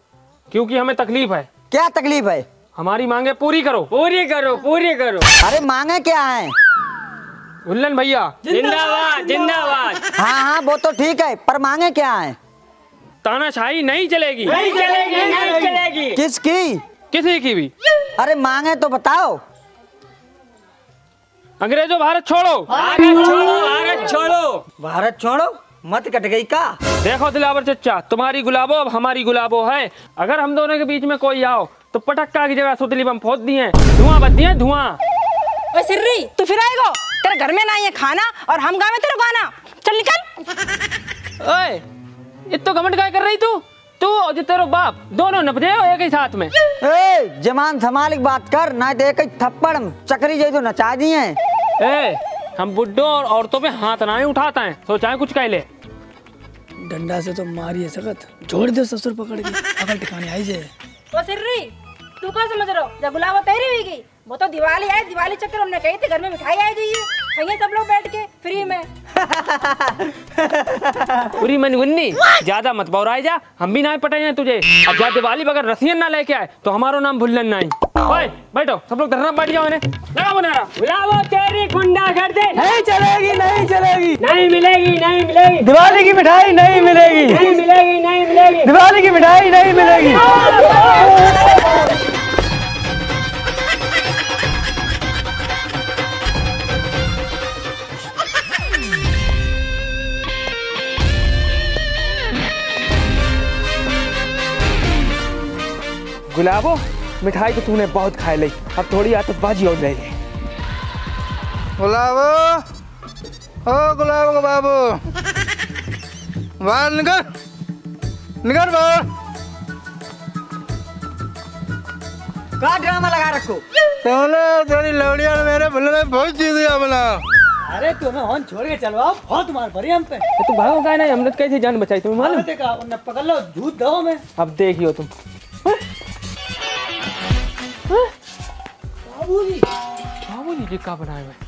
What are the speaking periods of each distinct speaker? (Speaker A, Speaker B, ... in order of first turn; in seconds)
Speaker A: 0.5-1.5, 2.8-3.9, 7.7-8.4, 13.2-14.6, 17.1-17.7, 21.6-22.7, 27.0-35.0, 41.4-41.8, 42.5-46.5, 51.8-55.7, 71.4-80.7, 90.1-91.2, 106.3-110.2, 130.4-132.5, 134.4-135.1, 140.3-141.4
Speaker B: 1.7-2.5, 5.4-6.5, 10.2-12.3, 16.1-16.8, 18.2-19.4, 24.8-26.8, 46.8-51.4, 122.6-123.6
Speaker C: 3.9-5.3, 8.5-10.0, 14.5-16.2, 22.7-24.6, 80.8-82.6, 84.2-85.7, 87.3-88.7, 89.9-91.7
Speaker D: 8.4-9.7, 14.4-15.8, 22.7-23.9, 56.8-60.7, 82.5-84.2, 85.6-87.6, 88.6-91.7, 127.7-130.2, 132.2-134.2, 139.1-139.7
Speaker E: 35.7-40.3, 61.1-68.9
Speaker F: 111.8-112.6, 113.7-115.0, 116.6-117.3, 118.4-119.0, 124.0-127.2